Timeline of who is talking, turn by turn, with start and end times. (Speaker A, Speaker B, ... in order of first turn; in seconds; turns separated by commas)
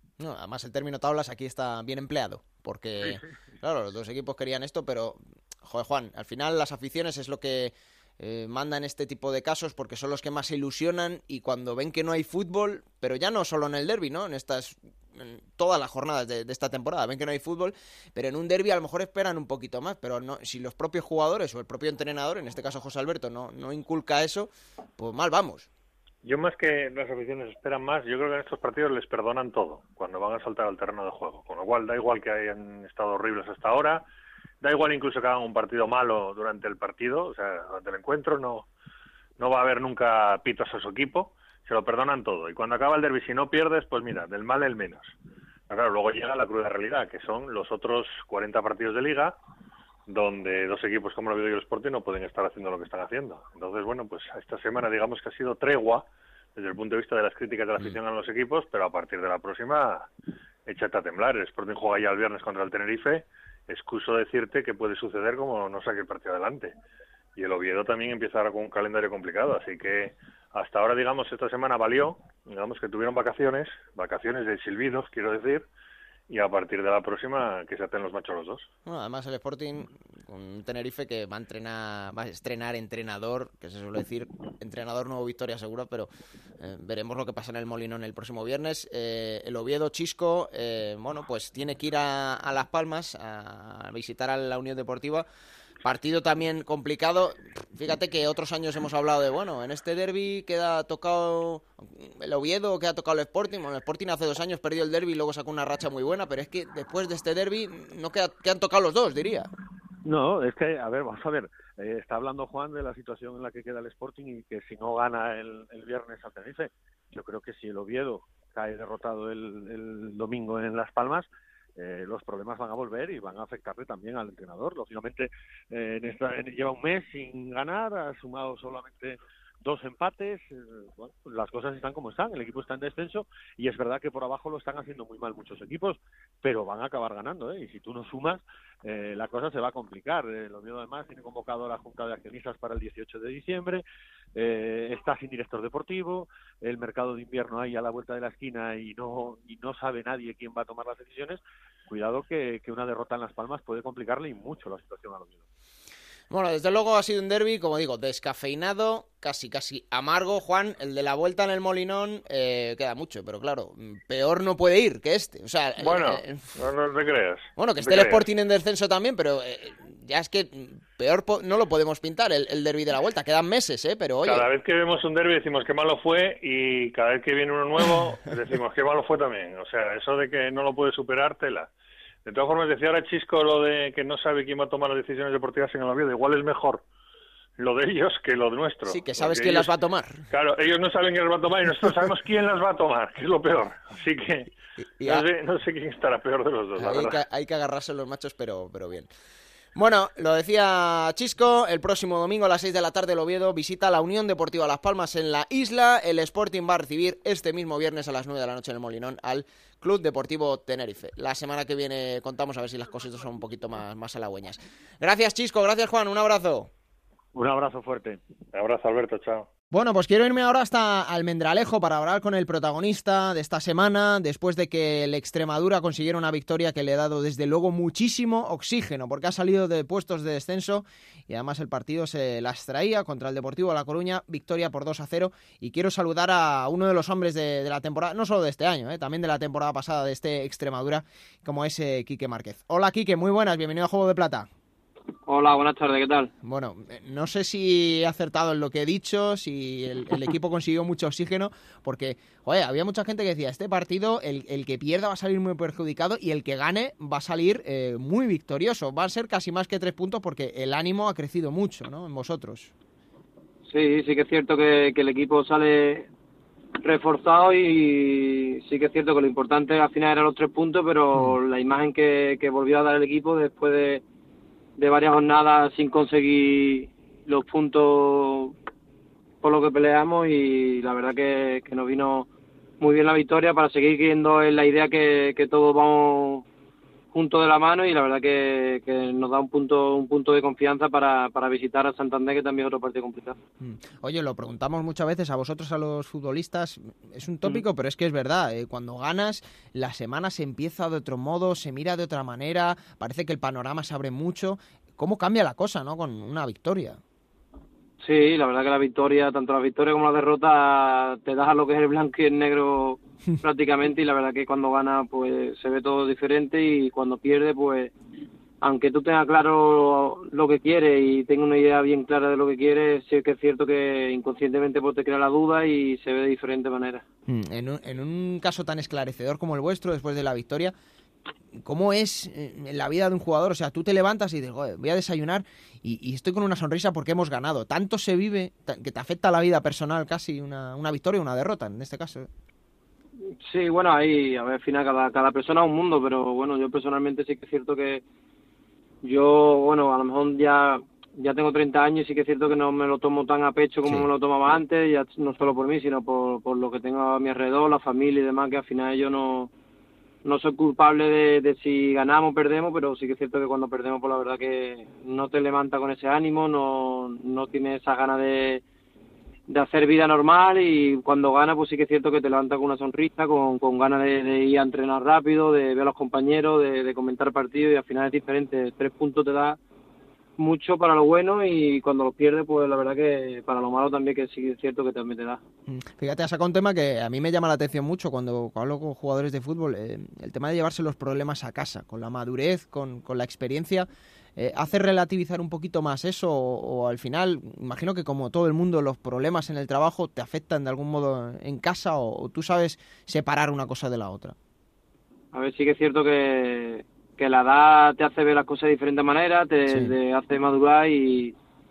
Speaker A: 0.2-25.7, Speaker B: 26.2-34.0, Speaker B: 34.6-38.7, Speaker B: 39.4-45.1, Speaker B: 45.7-49.4, Speaker B: 50.1-60.1, Speaker B: 60.7-66.7, Speaker B: 67.4-75.7, Speaker B: 76.3-78.7, Speaker A: 78.9-86.1, Speaker A: 86.6-95.2, Speaker A: 95.8-109.5, Speaker C: 110.0-143.8, Speaker C: 144.3-155.4, Speaker A: 156.3-166.5, Speaker B: 165.8-168.2, Speaker A: 167.6-174.5, Speaker B: 174.2-181.7, Speaker B: 182.2-186.8, Speaker B: 187.6-189.7, Speaker A: 188.8-190.2, Speaker B: 190.3-194.5, Speaker A: 195.0-195.3, Speaker B: 195.0-197.2, Speaker A: 196.8-199.1, Speaker A: 199.8-216.7, Speaker C: 217.3-218.2, Speaker B: 218.5-219.5, Speaker A: 219.7-244.5, Speaker D: 245.3-246.3, Speaker A: 246.4-262.7, Speaker D: 263.7-266.1, Speaker D: 266.8-274.0, Speaker D: 274.8-278.5, Speaker D: 279.4-282.3, Speaker D: 282.8-286.4, Speaker D: 287.1-293.4, Speaker A: 293.6-307.0, Speaker D: 308.0-317.9, Speaker D: 318.6-327.0, Speaker A: 327.2-330.7, Speaker A: 331.6-342.3, Speaker D: 343.3-348.0, Speaker D: 349.0-359.5, Speaker D: 360.2-368.6, Speaker D: 369.5-379.6, Speaker D: 380.4-385.4, Speaker A: 385.7-404.4, Speaker D: 405.3-411.3, Speaker A: 409.7-409.9